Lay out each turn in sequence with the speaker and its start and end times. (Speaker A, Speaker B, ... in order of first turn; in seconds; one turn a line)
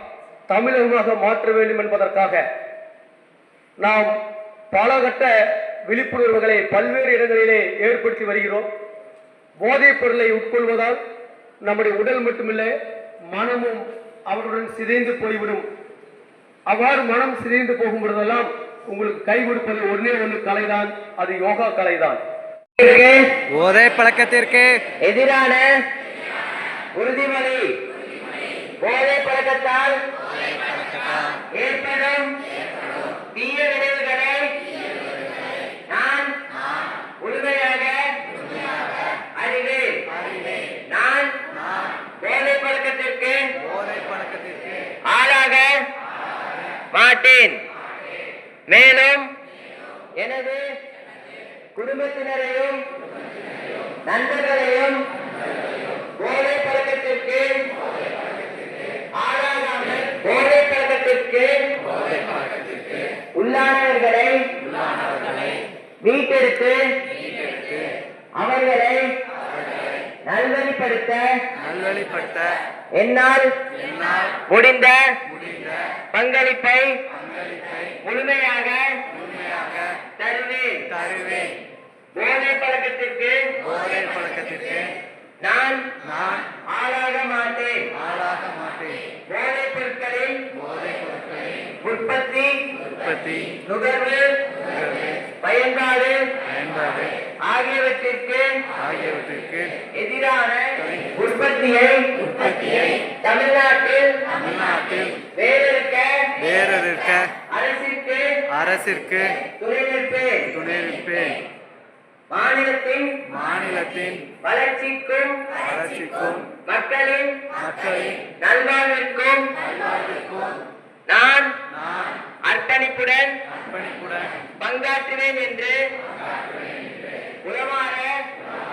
Speaker A: 0.5-2.4
Speaker A: 3.8-4.1
Speaker A: 4.7-5.3
Speaker A: 5.9-8.7
Speaker A: 9.6-11.0
Speaker A: 11.6-12.7
Speaker A: 13.3-15.6
Speaker A: 16.7-22.2
Speaker B: 22.8-23.4
Speaker C: 23.5-24.9
Speaker B: 25.0-25.7
Speaker B: 26.9-27.8
Speaker B: 28.8-30.0
Speaker C: 30.7-31.2
Speaker B: 31.5-32.4
Speaker B: 33.3-34.6
Speaker B: 35.9-36.3
Speaker B: 37.2-38.1
Speaker B: 39.4-40.0
Speaker C: 40.1-40.7
Speaker B: 40.9-41.4
Speaker B: 42.2-43.4
Speaker C: 43.6-44.9
Speaker B: 45.1-45.8
Speaker B: 46.9-47.6
Speaker B: 48.7-49.3
Speaker B: 50.2-50.6
Speaker B: 51.8-52.8
Speaker B: 54.1-55.0
Speaker B: 56.2-57.6
Speaker B: 59.2-61.5
Speaker B: 63.4-64.5
Speaker C: 64.9-65.5
Speaker B: 66.0-66.8
Speaker C: 67.5-67.8
Speaker B: 68.4-69.1
Speaker B: 70.2-71.4
Speaker C: 71.6-72.6
Speaker B: 72.9-73.5
Speaker C: 73.8-74.4
Speaker B: 74.5-75.2
Speaker C: 75.3-75.8
Speaker B: 76.1-77.0
Speaker C: 77.2-78.0
Speaker B: 78.0-79.0
Speaker C: 79.1-80.0
Speaker B: 80.2-80.9
Speaker C: 80.9-81.5
Speaker B: 82.1-83.5
Speaker C: 83.6-84.9
Speaker B: 85.4-85.9
Speaker C: 86.1-86.5
Speaker B: 86.7-87.9
Speaker C: 88.0-89.0
Speaker B: 89.3-90.5
Speaker C: 90.6-91.5
Speaker B: 91.8-92.6
Speaker C: 92.9-93.6
Speaker B: 93.6-94.4
Speaker C: 94.8-95.1
Speaker B: 95.4-96.3
Speaker C: 96.5-97.1
Speaker B: 97.4-98.5
Speaker C: 98.8-99.8
Speaker B: 99.9-104.3
Speaker C: 100.8-101.1
Speaker C: 104.4-105.2
Speaker B: 105.3-106.3
Speaker C: 106.4-107.3
Speaker B: 107.5-108.3
Speaker C: 108.5-109.4
Speaker B: 109.6-110.5
Speaker C: 110.5-111.4
Speaker B: 112.3-113.2
Speaker C: 113.3-114.4
Speaker B: 114.4-115.5
Speaker C: 115.6-116.5
Speaker B: 116.6-117.5
Speaker C: 117.6-118.3
Speaker B: 118.4-119.5
Speaker C: 119.7-120.6
Speaker B: 121.1-121.5
Speaker C: 121.8-122.1
Speaker B: 122.5-123.4
Speaker C: 123.7-124.3
Speaker B: 124.6-125.8
Speaker B: 127.4-128.2